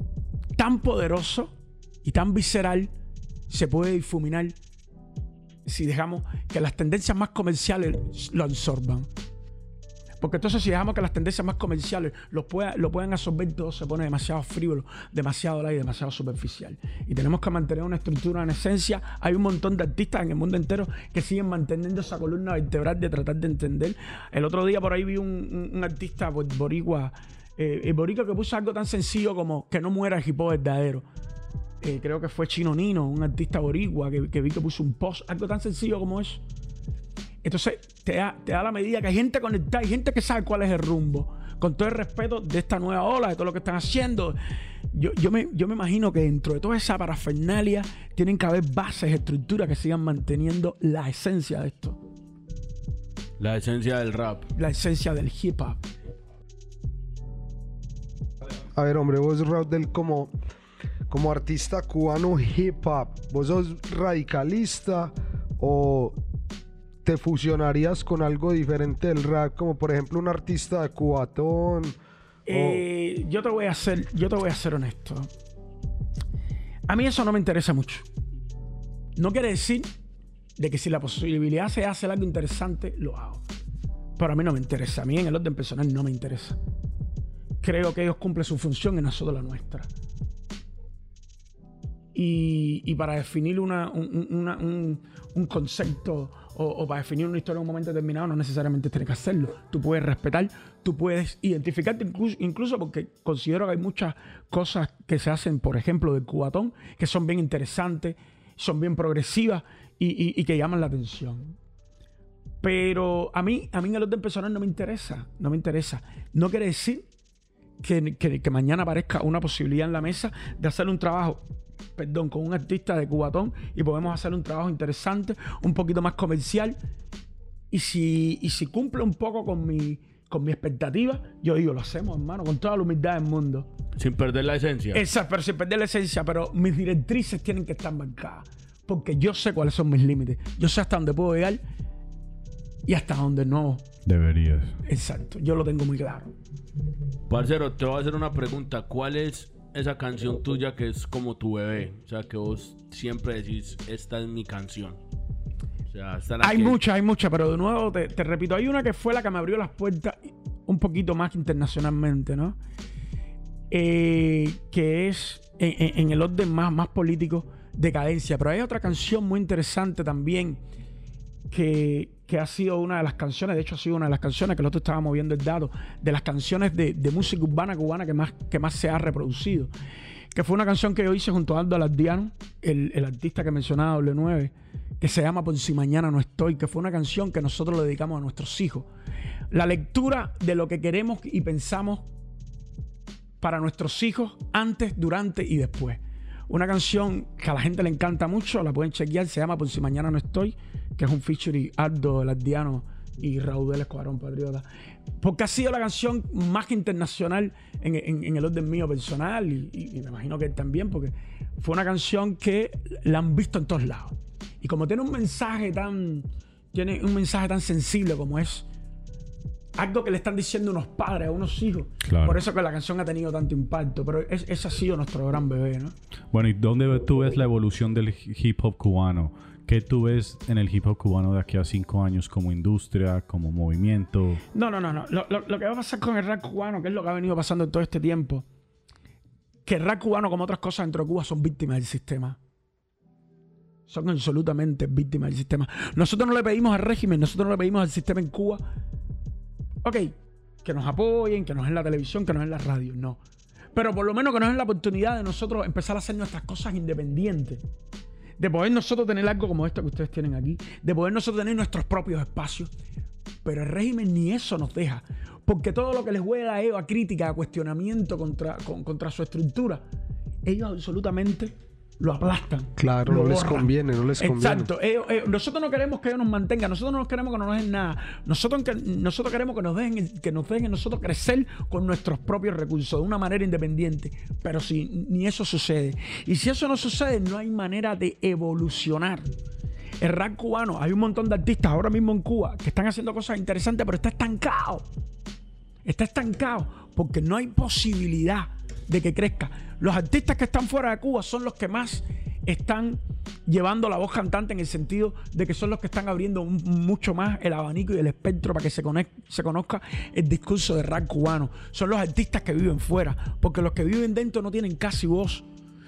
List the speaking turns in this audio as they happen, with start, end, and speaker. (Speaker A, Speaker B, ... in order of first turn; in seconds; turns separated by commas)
Speaker A: 0.6-2.9, Speaker A: 3.5-4.6, Speaker A: 5.7-9.1, Speaker A: 10.2-31.1, Speaker A: 31.8-36.4, Speaker A: 37.4-44.4, Speaker A: 44.9-52.0, Speaker B: 53.4-54.5, Speaker A: 54.5-55.8, Speaker C: 58.7-60.3, Speaker C: 61.1-66.2, Speaker C: 67.0-72.0, Speaker A: 72.5-75.3, Speaker C: 72.5-72.8, Speaker A: 76.9-78.1, Speaker A: 79.2-79.9, Speaker A: 80.6-83.4, Speaker A: 84.2-86.6, Speaker A: 87.6-89.9, Speaker A: 92.2-111.6, Speaker A: 112.6-117.1, Speaker A: 117.8-121.5, Speaker A: 122.0-126.8, Speaker A: 127.7-133.7, Speaker B: 134.0-135.0, Speaker A: 134.9-141.6, Speaker A: 142.9-143.8, Speaker D: 144.1-144.8, Speaker A: 144.8-146.3, Speaker B: 147.3-155.0, Speaker B: 155.9-156.8, Speaker A: 156.4-162.6, Speaker A: 163.7-170.6, Speaker A: 171.5-179.7, Speaker A: 180.3-188.9, Speaker A: 189.5-192.1, Speaker A: 193.4-204.7, Speaker A: 205.2-218.7, Speaker A: 219.8-225.9, Speaker D: 222.0-222.4, Speaker D: 226.3-234.4, Speaker A: 234.5-238.5, Speaker A: 239.7-242.4, Speaker A: 243.9-248.6, Speaker A: 249.8-253.2, Speaker A: 253.8-257.6, Speaker A: 258.4-262.7, Speaker A: 263.4-269.8, Speaker A: 270.4-289.3, Speaker C: 272.8-274.7, Speaker A: 290.0-294.9, Speaker A: 295.9-315.5